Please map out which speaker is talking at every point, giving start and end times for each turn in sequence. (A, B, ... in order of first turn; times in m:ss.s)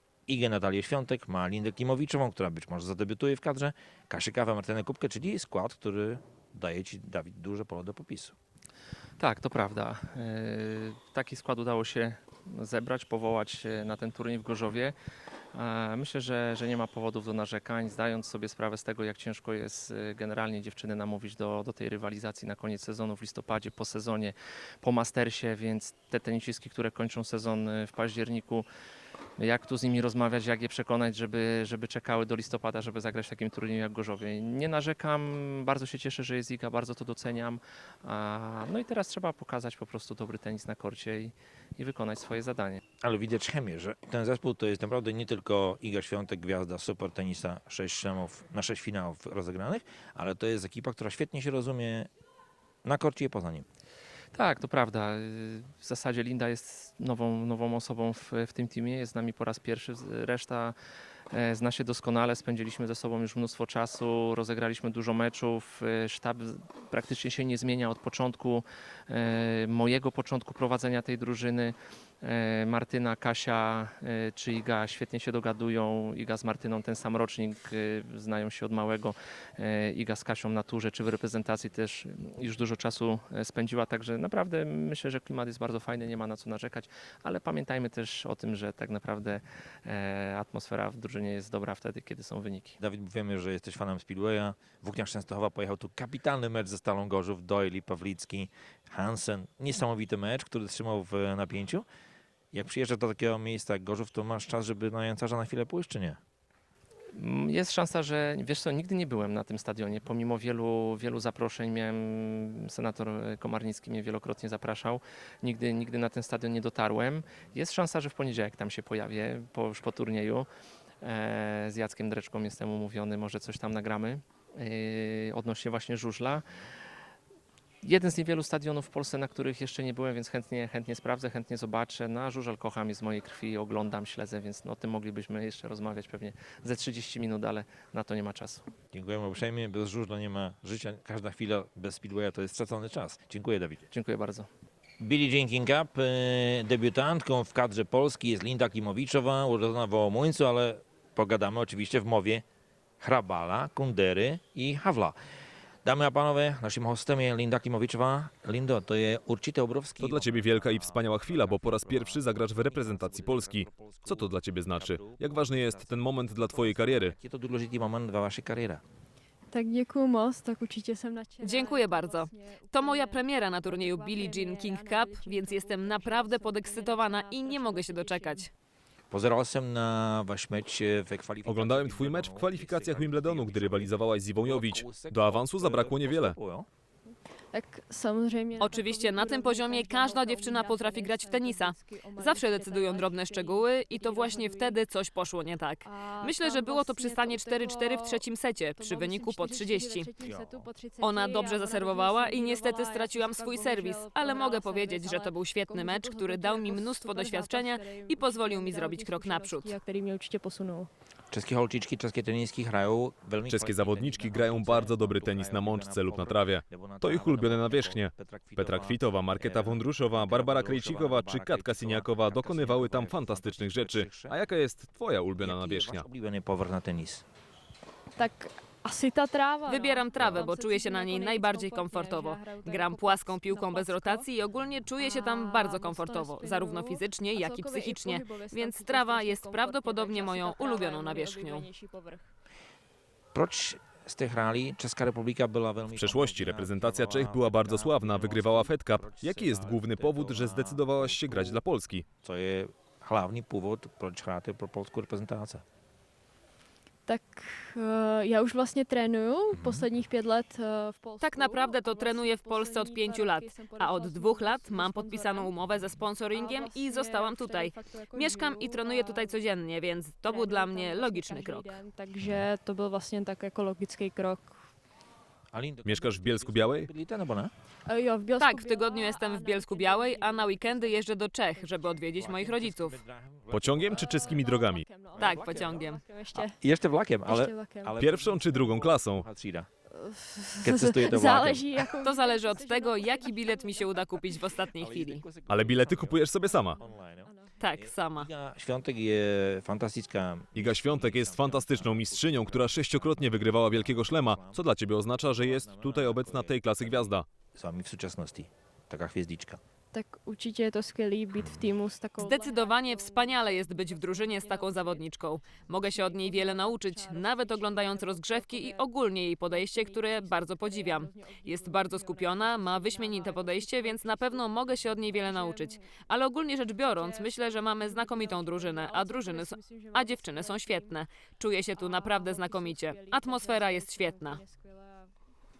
0:00.3-0:08.4 A
0:09.2-0:15.0 B
0:15.5-0:28.7 B
0:29.4-0:42.8 B
0:43.0-0:52.1 A
0:52.8-0:53.7 A
0:54.3-1:00.8 B
1:01.3-1:32.8 B
1:32.8-1:41.8 A
1:42.5-1:46.2 A
1:47.1-2:00.5 B
2:01.0-2:06.4 B
2:07.8-2:18.6 B
2:18.9-2:23.8 A
2:23.9-2:24.5 B
2:25.0-2:32.4 A
2:33.0-2:35.2 A
2:35.8-2:48.8 A
2:40.0-2:47.2 C
2:49.5-2:58.5 D
2:51.4-2:58.5 E
2:59.1-3:06.7 A
3:01.4-3:06.4 C
3:07.5-3:14.9 D
3:08.6-3:20.1 E
3:15.8-3:30.9 D
3:20.2-3:20.7 A
3:21.0-3:29.8 E
3:31.3-3:44.4 A
3:33.5-3:46.1 C
3:45.4-3:47.2 A
3:48.2-3:54.3 D
3:49.7-4:01.7 E
3:50.2-3:50.4 C
3:50.2-3:50.4 A
3:54.9-4:02.3 D
4:03.3-4:11.6 A
4:05.9-4:12.0 C
4:12.2-4:15.6 A
4:17.1-4:25.7 D
4:19.5-4:19.9 A
4:21.2-4:31.8 E
4:26.3-4:29.5 D
4:30.2-4:34.6 D
4:35.5-4:37.5 A
4:35.8-4:36.9 C
4:37.8-4:42.3 D
4:38.4-4:43.0 E
4:42.1-4:44.4 A
4:43.5-4:44.8 C
4:43.8-4:46.6 D
4:45.1-4:49.7 A
4:45.2-4:46.0 E
4:47.2-4:48.0 D
4:48.0-4:49.2 C
4:49.9-4:54.6 D
4:50.6-4:51.8 A
4:52.0-4:55.3 E
4:54.7-5:09.6 A
4:55.5-4:56.8 C
4:55.7-4:57.5 D
4:57.6-4:58.3 E
5:00.6-5:07.3 C
5:09.9-5:31.1 D
5:11.4-5:11.7 A
5:12.2-5:34.4 E
5:31.7-5:35.2 D